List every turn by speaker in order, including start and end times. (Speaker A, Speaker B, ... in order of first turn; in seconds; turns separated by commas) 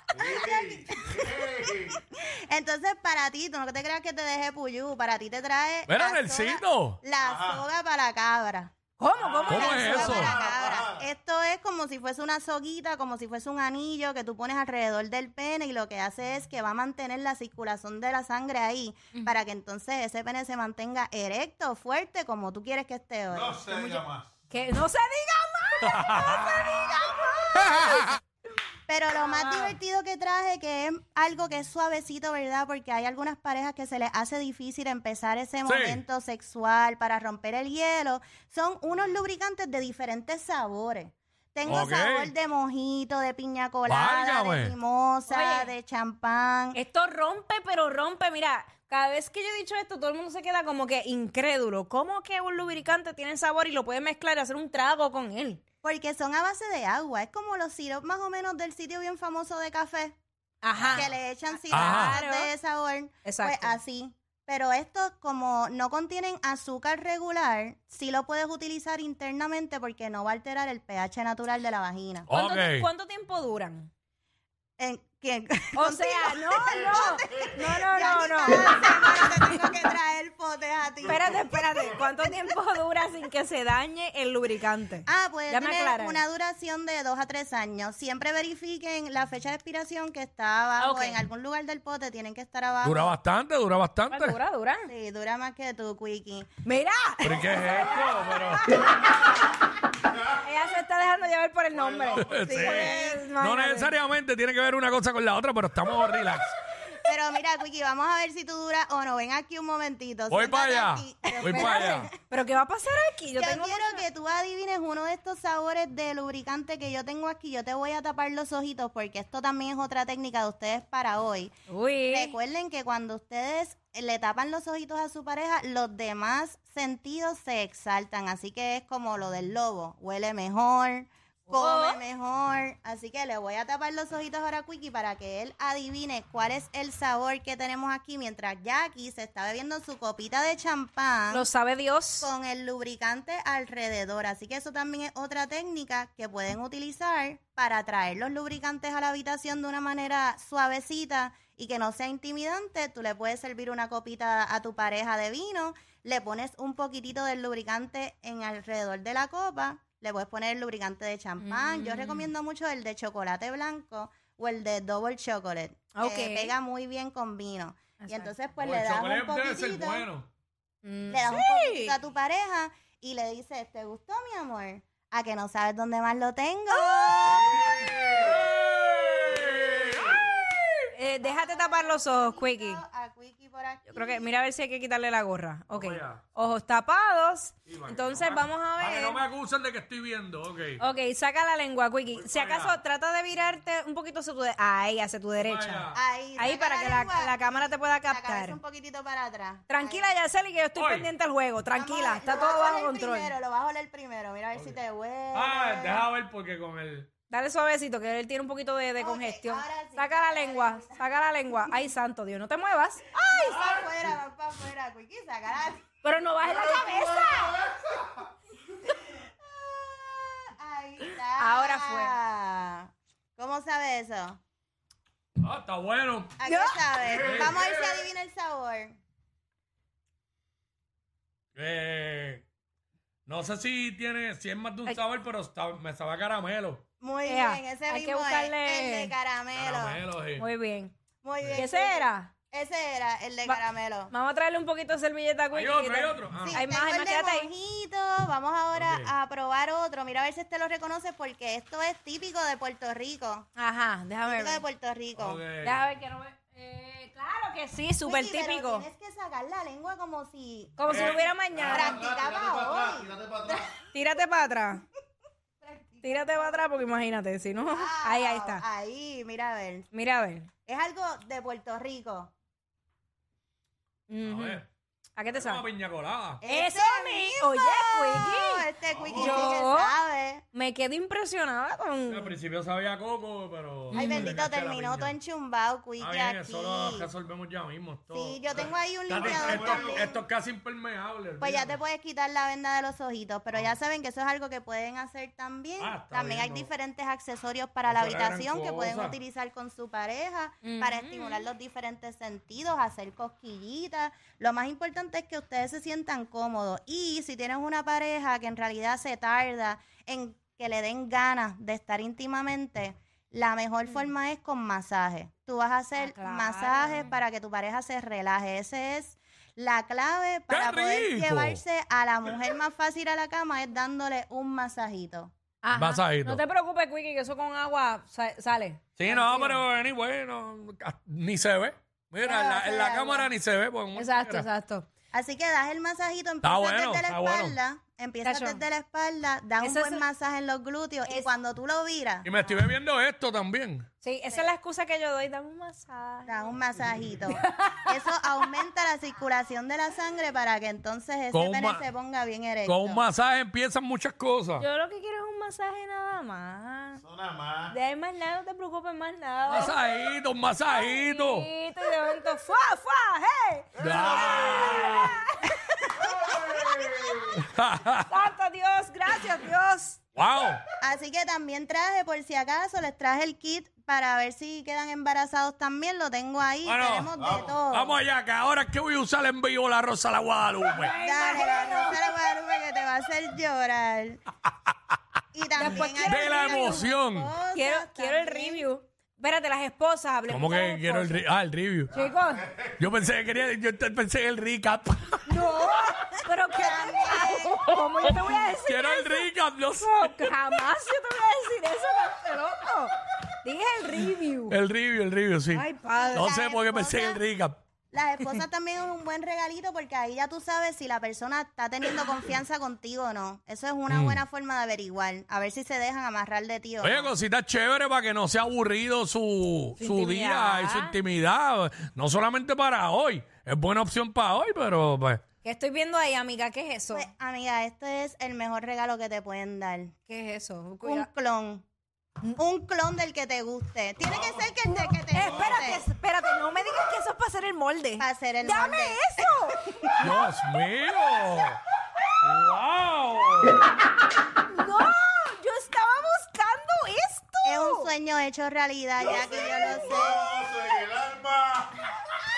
Speaker A: 0.1-1.9, Speaker B: 0.2-8.7, Speaker C: 5.9-7.0, Speaker A: 7.2-7.6, Speaker D: 9.0-10.3, Speaker A: 9.2-11.0, Speaker C: 9.5-10.3, Speaker B: 9.5-24.0, Speaker D: 19.1-19.4, Speaker A: 23.3-24.2, Speaker D: 24.5-28.2, Speaker C: 25.8-26.6, Speaker B: 28.9-46.8, Speaker D: 29.1-29.7, Speaker C: 35.6-36.0, Speaker C: 41.6-42.3, Speaker C: 43.9-44.7, Speaker D: 45.3-45.7, Speaker D: 46.7-55.6, Speaker B: 55.8-60.1, Speaker D: 60.6-61.1, Speaker B: 60.8-72.3, Speaker D: 61.7-62.5, Speaker C: 61.7-62.2, Speaker D: 63.2-63.8, Speaker C: 72.3-72.9, Speaker D: 72.3-73.9, Speaker B: 74.8-82.0, Speaker D: 75.7-79.6, Speaker D: 81.0-86.2, Speaker B: 85.1-93.1, Speaker D: 90.8-91.2, Speaker C: 92.8-94.4, Speaker D: 94.1-94.9, Speaker B: 94.9-96.5, Speaker D: 96.6-97.8, Speaker C: 97.2-98.7, Speaker D: 98.3-99.1, Speaker D: 100.3-104.0, Speaker A: 101.8-102.3, Speaker C: 102.1-106.5, Speaker B: 102.5-103.2, Speaker B: 107.0-112.1, Speaker C: 110.3-112.0, Speaker D: 111.3-114.0, Speaker B: 113.4-121.5, Speaker D: 121.7-122.3, Speaker B: 122.1-141.4, Speaker D: 131.5-132.0, Speaker D: 141.3-142.3, Speaker B: 142.2-170.1, Speaker D: 161.4-162.3, Speaker D: 165.9-166.5, Speaker D: 168.0-168.3, Speaker C: 168.6-170.2, Speaker D: 170.8-171.9, Speaker B: 171.1-177.7, Speaker D: 176.7-177.4, Speaker A: 177.5-178.0, Speaker C: 177.9-180.3, Speaker D: 180.9-182.8, Speaker B: 181.2-184.3, Speaker D: 183.9-189.2, Speaker C: 185.7-186.3, Speaker C: 187.7-190.8, Speaker D: 190.8-198.6, Speaker C: 192.1-192.8, Speaker C: 195.4-196.0, Speaker B: 195.9-200.1, Speaker D: 199.7-203.3, Speaker C: 200.8-201.1, Speaker B: 201.7-206.1, Speaker C: 205.3-207.1, Speaker D: 207.3-213.3, Speaker B: 209.0-211.0, Speaker B: 213.1-215.8, Speaker D: 216.0-217.6, Speaker B: 216.8-217.2, Speaker B: 218.9-224.4, Speaker D: 221.4-222.1, Speaker C: 225.4-226.3, Speaker B: 226.4-229.0, Speaker D: 226.4-227.1, Speaker C: 227.2-227.7, Speaker C: 231.6-232.4, Speaker C: 233.2-236.8, Speaker B: 237.0-240.0, Speaker D: 237.2-239.1, Speaker C: 239.5-240.4, Speaker D: 240.4-240.9, Speaker B: 241.2-244.1, Speaker D: 241.5-242.3, Speaker D: 243.4-247.5, Speaker C: 245.5-246.6, Speaker B: 246.3-253.5, Speaker C: 248.7-249.1, Speaker D: 253.6-254.6, Speaker B: 254.2-255.4, Speaker C: 255.2-255.8, Speaker D: 255.6-258.9, Speaker B: 258.0-263.7, Speaker D: 260.8-262.0, Speaker A: 261.0-263.6, Speaker D: 263.9-264.8, Speaker B: 265.6-267.0, Speaker D: 266.0-268.6, Speaker B: 267.5-269.9, Speaker D: 269.9-270.5, Speaker B: 270.6-272.3, Speaker D: 274.1-274.6, Speaker C: 274.2-274.7, Speaker D: 275.1-275.6, Speaker C: 275.3-276.4, Speaker B: 276.4-280.4, Speaker D: 276.4-279.9, Speaker A: 278.9-279.5, Speaker D: 280.5-282.4, Speaker C: 282.1-285.1, Speaker D: 283.9-284.3, Speaker B: 283.9-287.1, Speaker C: 286.0-288.4, Speaker B: 288.1-290.1, Speaker C: 289.1-291.8, Speaker A: 289.2-290.0, Speaker B: 291.4-325.3, Speaker C: 295.8-296.7, Speaker C: 297.9-299.1, Speaker D: 300.6-301.4, Speaker D: 316.0-317.1, Speaker C: 320.5-321.6, Speaker D: 325.6-329.6, Speaker C: 325.8-326.4, Speaker C: 329.0-334.5, Speaker B: 332.2-333.3, Speaker D: 333.9-334.9, Speaker B: 335.1-342.3, Speaker C: 336.4-337.6, Speaker D: 338.2-338.6, Speaker D: 339.6-340.0, Speaker C: 342.2-343.9, Speaker D: 344.0-346.5, Speaker B: 346.3-353.0, Speaker D: 347.3-348.3, Speaker C: 351.3-351.8, Speaker C: 352.7-354.6, Speaker D: 354.6-357.0, Speaker A: 357.1-357.7, Speaker D: 357.7-359.9, Speaker C: 359.5-361.5, Speaker D: 360.6-367.3, Speaker C: 363.8-365.2, Speaker A: 363.8-364.9, Speaker A: 366.2-367.3, Speaker C: 367.3-368.1, Speaker D: 368.1-370.0, Speaker C: 370.1-370.6, Speaker B: 370.8-378.0, Speaker C: 376.6-377.1, Speaker C: 377.7-380.9, Speaker D: 380.7-382.2, Speaker B: 381.0-384.2, Speaker B: 385.3-388.6, Speaker D: 385.6-386.9, Speaker C: 386.0-387.3, Speaker D: 387.5-391.2, Speaker C: 390.3-391.9, Speaker D: 391.9-392.5, Speaker C: 392.8-395.2, Speaker D: 395.2-404.6, Speaker B: 396.5-397.6, Speaker C: 398.6-400.3, Speaker C: 404.5-407.6, Speaker D: 405.5-406.4, Speaker B: 405.9-407.2, Speaker B: 407.9-417.1, Speaker C: 413.9-414.2, Speaker C: 416.8-425.2, Speaker D: 419.8-421.0, Speaker D: 425.4-427.1, Speaker B: 426.9-429.9, Speaker D: 430.1-431.1, Speaker B: 430.8-431.6, Speaker B: 432.4-435.8, Speaker D: 434.7-440.2, Speaker B: 438.0-439.0, Speaker B: 439.8-440.1, Speaker C: 440.0-441.6, Speaker C: 442.2-443.6, Speaker D: 444.5-447.9, Speaker B: 447.4-450.3, Speaker A: 449.0-451.7